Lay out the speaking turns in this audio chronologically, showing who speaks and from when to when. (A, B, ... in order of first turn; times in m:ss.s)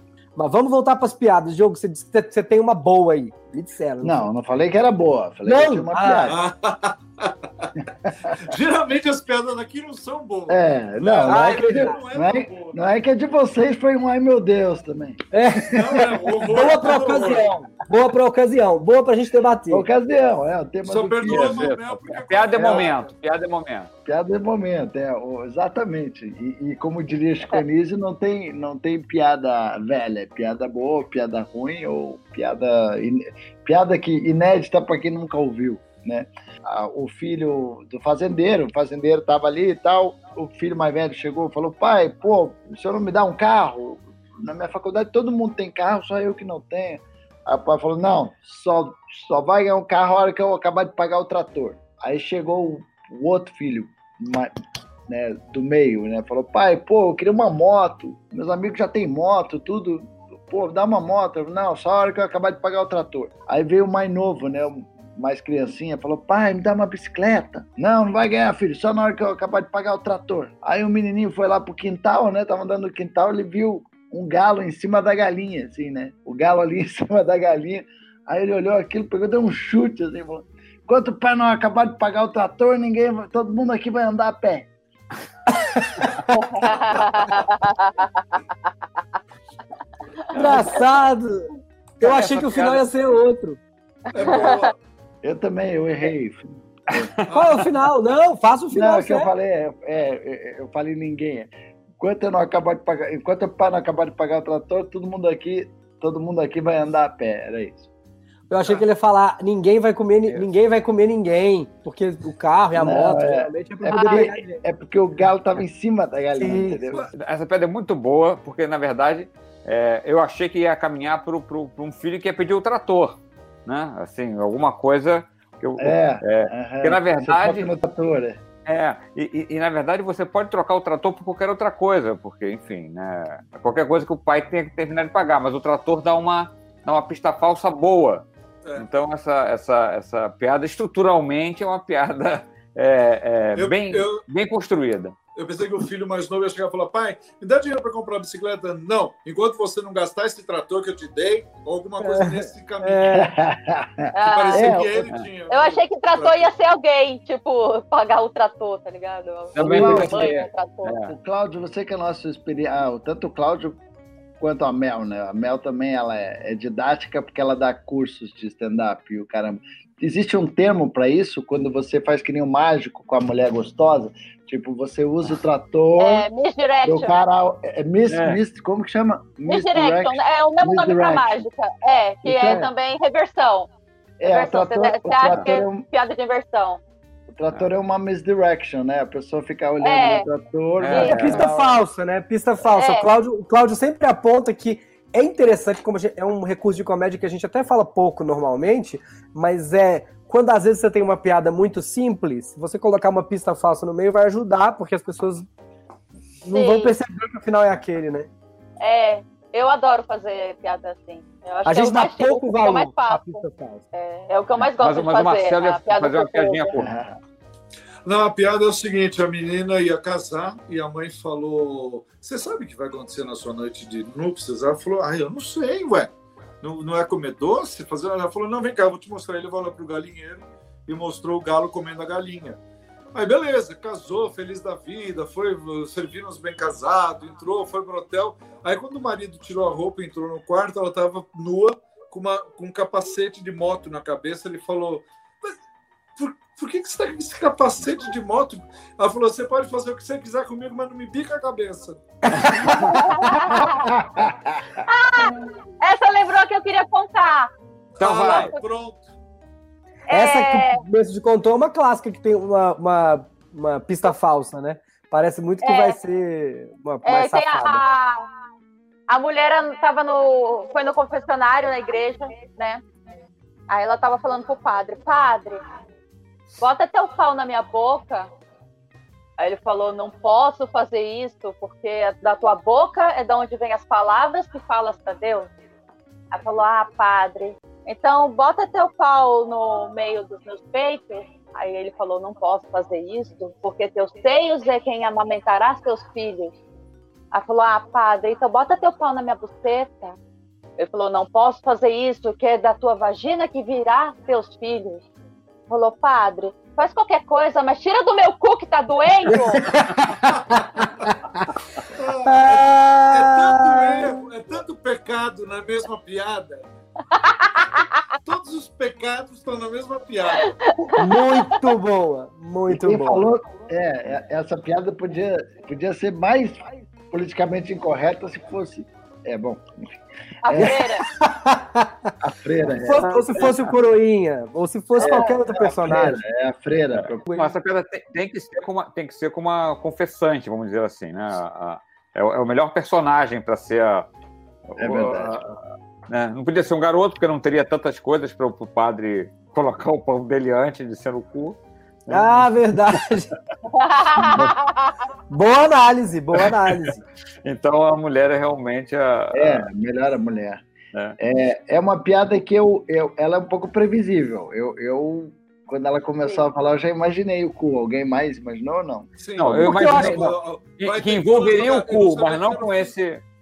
0:00.4-0:04.3 A
0:04.0-0:06.4 B
0:05.5-0:06.4 A
0:06.3-0:07.7 C
0:08.1-0:08.3 B
0:08.3-0:12.8 C
0:10.5-0:16.0 B
0:11.3-0:12.0 A
0:15.3-0:19.9 A
0:15.6-0:17.5 C
0:19.7-0:21.6 B
0:20.9-0:23.1 C
0:21.3-0:23.9 D
0:22.6-0:22.9 B
0:24.0-0:54.5 B
0:55.1-1:24.7 B
1:25.6-1:26.4 A
1:26.4-1:28.1 E
1:30.3-1:33.6 A
1:32.0-1:32.8 D
1:34.1-1:34.8 C
1:34.2-1:34.7 E
1:35.2-1:37.1 B
1:37.0-1:37.2 D
1:37.3-1:37.6 C
1:37.3-1:39.3 A
1:38.7-1:47.9 B
1:48.5-1:54.6 A
1:52.8-1:57.0 B
1:53.9-1:54.3 E
1:56.4-1:56.8 A
1:57.1-2:07.7 D
2:05.8-2:08.4 B
2:08.6-2:25.2 D
2:23.6-2:24.3 C
2:25.4-2:33.3 C
2:32.0-2:33.3 A
2:33.1-2:35.0 B
2:34.1-2:34.8 E
2:34.2-2:36.5 C
2:35.5-2:41.0 E
2:39.6-2:41.1 D
2:39.6-2:40.3 B
2:41.0-2:43.8 B
2:44.4-2:56.3 B
2:56.0-2:57.2 E
2:56.8-3:01.5 B
2:58.1-2:58.4 D
2:59.5-3:03.7 E
3:02.2-3:02.7 B
3:04.2-3:05.9 B
3:04.3-3:06.8 E
3:07.3-3:11.5 B
3:09.8-3:10.3 E
3:10.8-3:11.5 D
3:10.9-3:11.7 E
3:10.9-3:25.5 A
3:12.8-3:13.1 E
3:26.4-3:28.3 A
3:26.5-3:27.0 E
3:28.8-3:36.8 E
3:31.7-3:33.8 A
3:34.6-3:36.9 D
3:36.8-3:37.2 B
3:38.0-3:46.1 C
3:46.6-3:52.6 C
3:53.1-4:05.6 C
4:06.2-4:12.0 C
4:12.4-4:13.1 D
4:12.9-4:13.9 E
4:13.6-4:14.8 B
4:14.9-4:17.5 E
4:18.0-4:19.1 C
4:18.0-4:18.5 D
4:18.3-4:18.6 E
4:20.1-4:20.8 E
4:20.1-4:27.8 A
4:25.6-4:26.0 E
4:27.0-4:28.3 E
4:29.1-4:32.8 E
4:33.7-4:35.6 E
4:36.6-4:38.3 E
4:39.4-4:45.5 E
4:46.3-4:56.5 E
4:57.3-5:00.2 E
5:00.8-5:05.0 E
5:05.7-5:09.6 E
5:09.3-5:11.4 A
5:10.2-5:10.6 C
5:11.9-5:16.7 C
5:12.2-5:14.2 A
5:17.3-5:17.8 E
5:18.2-5:20.5 C
5:20.5-5:21.5 E
5:20.9-5:23.3 A
5:22.7-5:29.7 B
5:30.4-5:31.0 E
5:30.4-5:30.8 B
5:30.6-5:32.1 A
5:32.2-5:33.2 B
5:32.8-5:36.2 A
5:33.1-5:33.6 D
5:35.0-5:37.3 B
5:37.0-5:44.1 D
5:37.3-5:37.5 A
5:44.7-5:53.0 D
5:44.8-5:45.4 B
5:52.1-5:53.3 A
5:53.7-5:54.9 E
5:54.2-5:54.5 D
5:55.3-5:57.0 A
5:57.4-5:59.7 D
5:59.3-6:00.6 B
6:01.2-6:09.8 B
6:09.2-6:12.9 C
6:09.4-6:13.2 D